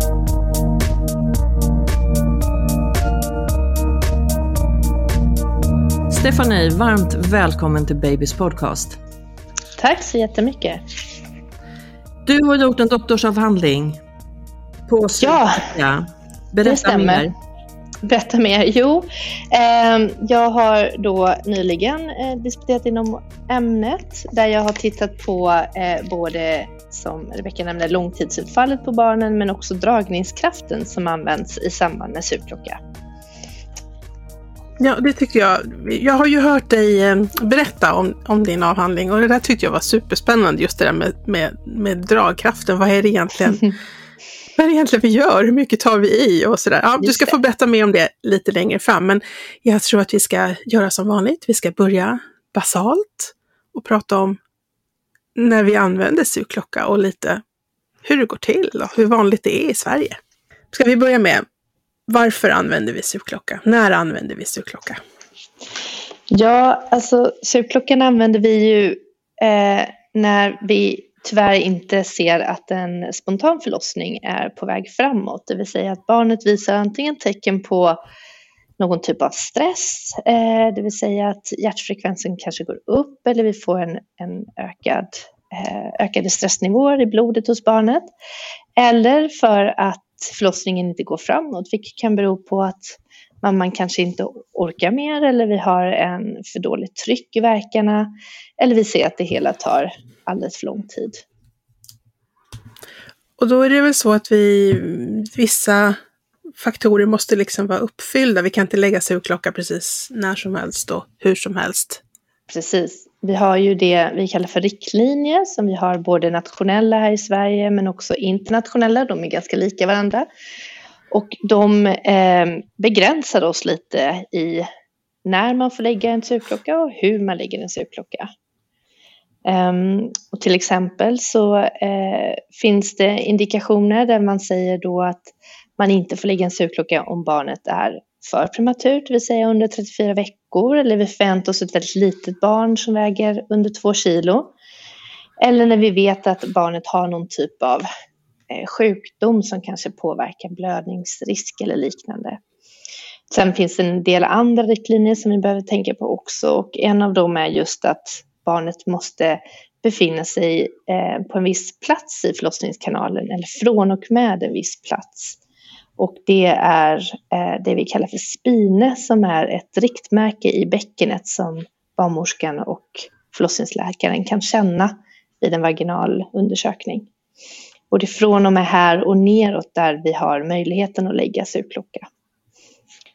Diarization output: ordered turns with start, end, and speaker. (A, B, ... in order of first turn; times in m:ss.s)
0:06.1-0:09.0 A
0:09.8-0:10.8 B
0:12.3-0:14.0 A
0:14.9-0:17.3 A
0:15.2-0:15.7 B
0:16.6-0:17.3 B
0:18.0-0:32.8 B
0:34.8-0:43.7 C
0:44.6-0:54.4 C
0:47.0-0:47.4 B
0:55.4-0:57.4 C
0:58.0-1:00.2 C
1:00.7-1:01.4 C
1:02.1-1:05.0 C
1:06.3-1:18.0 B
1:18.8-1:28.1 B
1:28.8-1:41.2 B
1:43.4-1:46.0 C
1:46.6-1:52.0 C
1:52.5-2:00.3 B
2:01.1-2:04.7 B
2:05.2-2:08.3 B
2:09.5-2:24.5 B
2:25.4-2:27.9 B
2:28.5-2:32.4 B
2:33.3-2:45.4 B
2:46.0-2:57.1 B
2:57.9-3:02.1 B